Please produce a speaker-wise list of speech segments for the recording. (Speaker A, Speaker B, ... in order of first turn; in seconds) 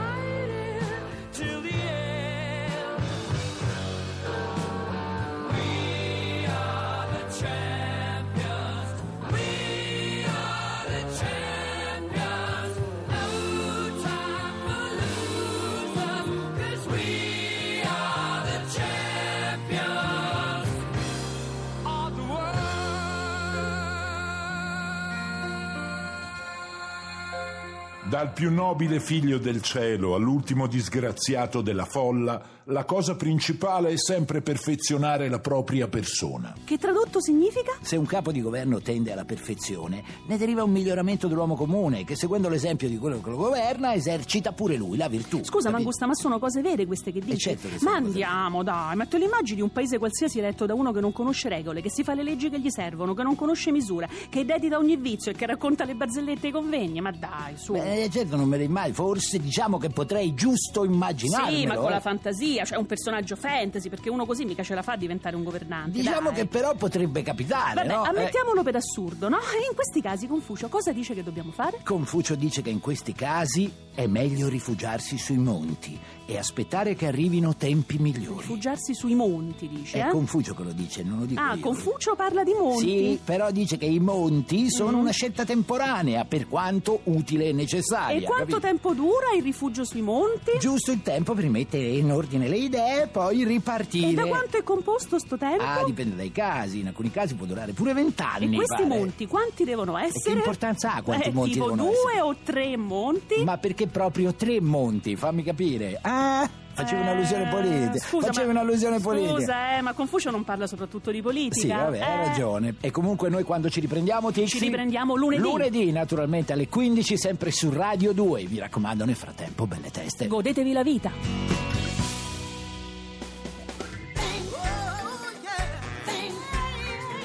Speaker A: 28.0-36.6
Speaker B: 36.7-37.8, 45.4-58.0, 61.2-66.5, 67.7-71.8, 78.3-80.2, 81.4-83.2, 84.7-85.1, 88.1-90.7, 94.0-96.0, 98.4-100.6, 101.1-103.5, 106.8-112.4, 114.4-115.7, 120.2-121.2
Speaker C: 37.8-45.9, 47.3-48.3, 57.7-62.0, 65.9-68.4, 71.8-78.6, 79.9-81.9, 82.7-88.7, 90.5-94.5, 95.6-99.1, 100.1-102.2, 103.4-109.5, 111.5-120.3